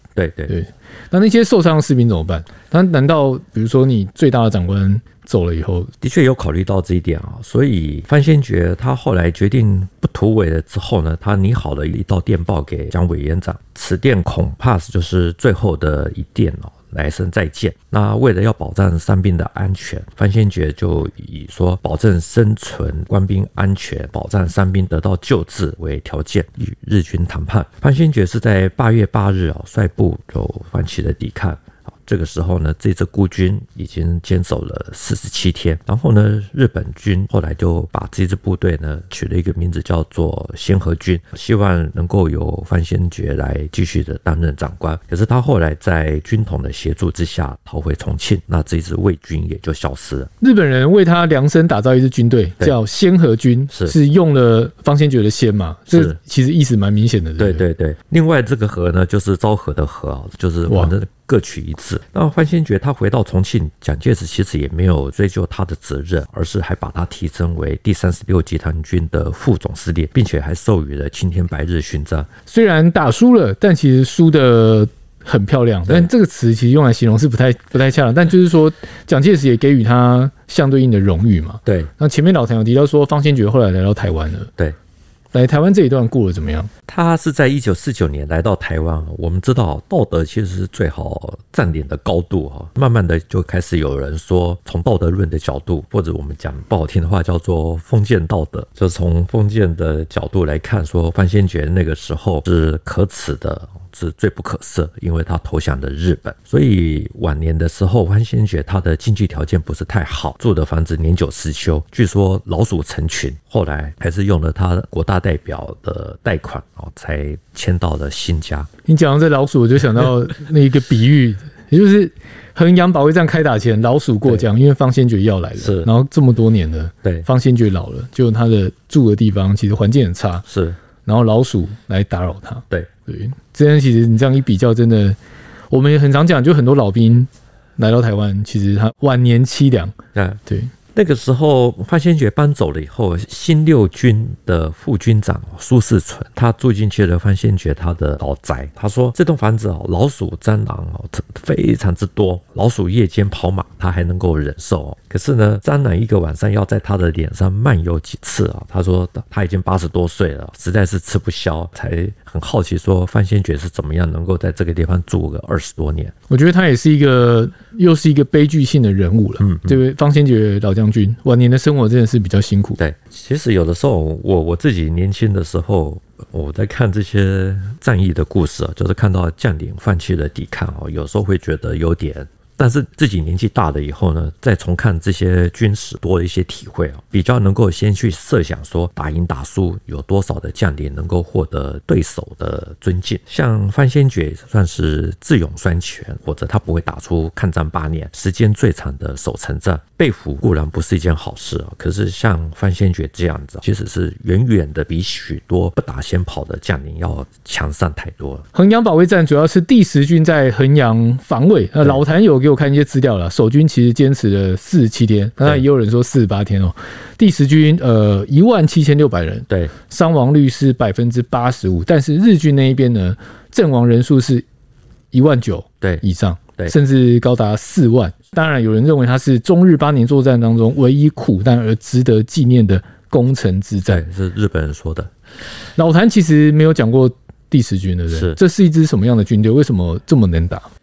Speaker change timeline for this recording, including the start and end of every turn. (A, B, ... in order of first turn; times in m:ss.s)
0:00.2-0:00.5 A
0:00.5-0:05.9 B
0:06.0-0:50.3 A
0:50.4-0:57.6 B
0:53.7-0:53.9 A
0:55.9-0:56.2 A
0:57.4-1:12.3 A
1:12.5-1:24.5 B
1:21.6-1:21.9 A
1:25.3-1:26.7 B
1:26.9-1:58.7 A
1:58.8-2:10.4 B
2:05.6-2:05.9 A
2:10.5-2:10.8 A
2:11.0-2:15.2 B
2:15.7-2:20.0 B
2:20.1-2:20.4 A
2:20.5-2:20.7 B
2:20.9-2:46.1 A
2:46.3-2:52.8 B
2:49.4-2:49.8 A
2:52.8-3:28.4 A
3:28.5-3:44.4 B
3:45.1-3:54.0 B
3:53.8-3:55.1 A
3:55.8-4:00.6 B
3:58.1-3:58.4 A